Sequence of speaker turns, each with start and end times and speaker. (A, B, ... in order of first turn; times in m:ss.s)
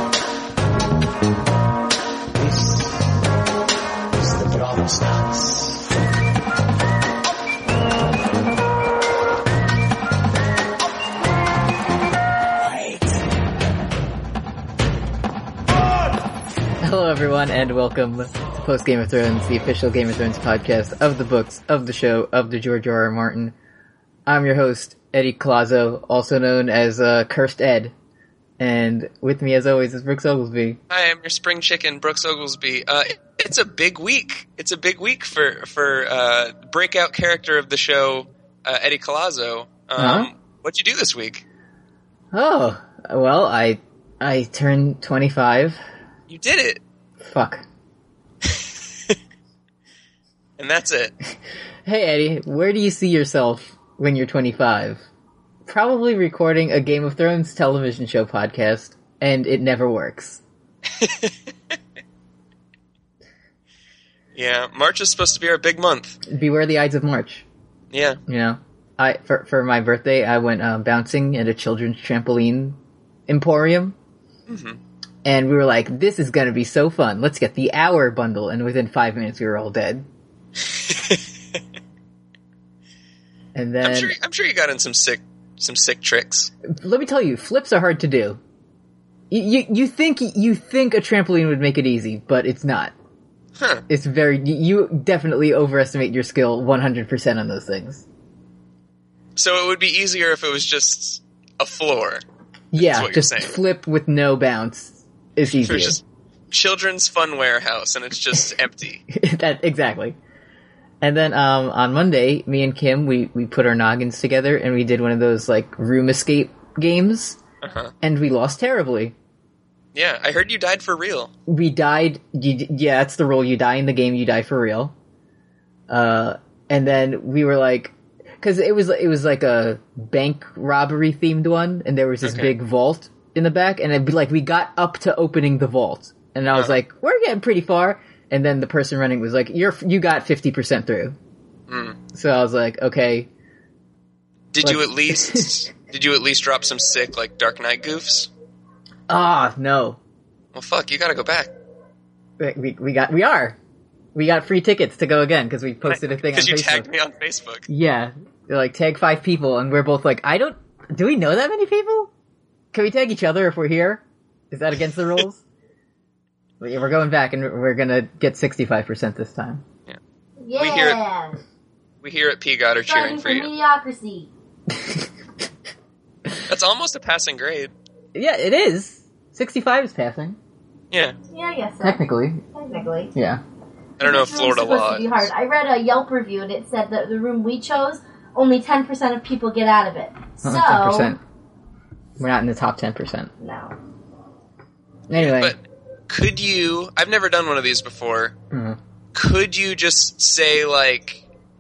0:02.3-0:03.1 A
0:04.1-0:05.8 A
0:16.8-0:23.6 B
0:24.3-0:27.9 B
0:28.6-0:30.8 B
0:30.9-0:41.4 C
0:40.0-0:40.3 B
0:42.3-0:45.8 B
0:46.3-0:46.8 C
0:47.2-0:47.6 B
0:48.4-0:49.2 C
0:50.6-0:51.1 C
0:51.8-0:55.0 B
0:55.7-1:00.4 B
1:00.9-1:01.3 C
1:04.4-1:06.2 C
1:06.3-1:07.4 B
1:07.9-1:08.2 C
1:08.3-1:12.8 B
1:13.3-1:14.0 B
1:14.5-1:14.8 C
1:15.2-1:20.1 B
1:20.7-1:21.2 C
1:23.6-1:24.2 B
1:23.8-1:26.5 C
1:26.7-1:28.4 B
1:29.3-1:32.9 B
1:33.6-1:33.8 C
1:33.9-1:38.0 B
1:39.4-1:42.2 C
1:42.7-1:46.0 B
1:42.8-1:43.6 C
1:45.6-1:49.0 C
1:49.1-1:50.2 B
1:51.0-1:57.4 B
1:57.6-1:57.9 C
1:58.0-1:59.1 B
2:00.0-2:01.3 C
2:01.5-2:04.9 B
2:05.9-2:21.2 B
2:12.2-2:12.6 C
2:21.7-2:22.0 C
2:22.1-2:23.3 B
2:24.5-2:28.3 C
2:24.6-2:25.5 B
2:29.1-2:30.0 B
2:30.5-2:31.5 C
2:32.4-2:33.6 B
2:34.2-2:36.9 B
2:35.8-2:37.7 C
2:37.7-2:42.1 B
2:42.7-2:45.4 B
2:46.6-2:49.6 B
2:50.4-2:51.4 D
2:50.6-2:51.0 C
2:52.0-2:53.5 C
2:52.9-2:54.3 D
2:54.7-2:55.1 B
2:56.5-2:57.7 C
2:58.2-3:00.4 B
3:00.9-3:01.2 C
3:01.3-3:02.0 D
3:01.8-3:02.4 B
3:02.5-3:03.1 D
3:03.1-3:03.4 B
3:04.0-3:05.3 C
3:04.0-3:11.1 D
3:10.4-3:11.2 B
3:12.2-3:13.3 B
3:13.4-3:13.8 D
3:15.1-3:15.6 B
3:15.1-3:18.4 C
3:18.5-3:18.8 B
3:19.1-3:21.2 C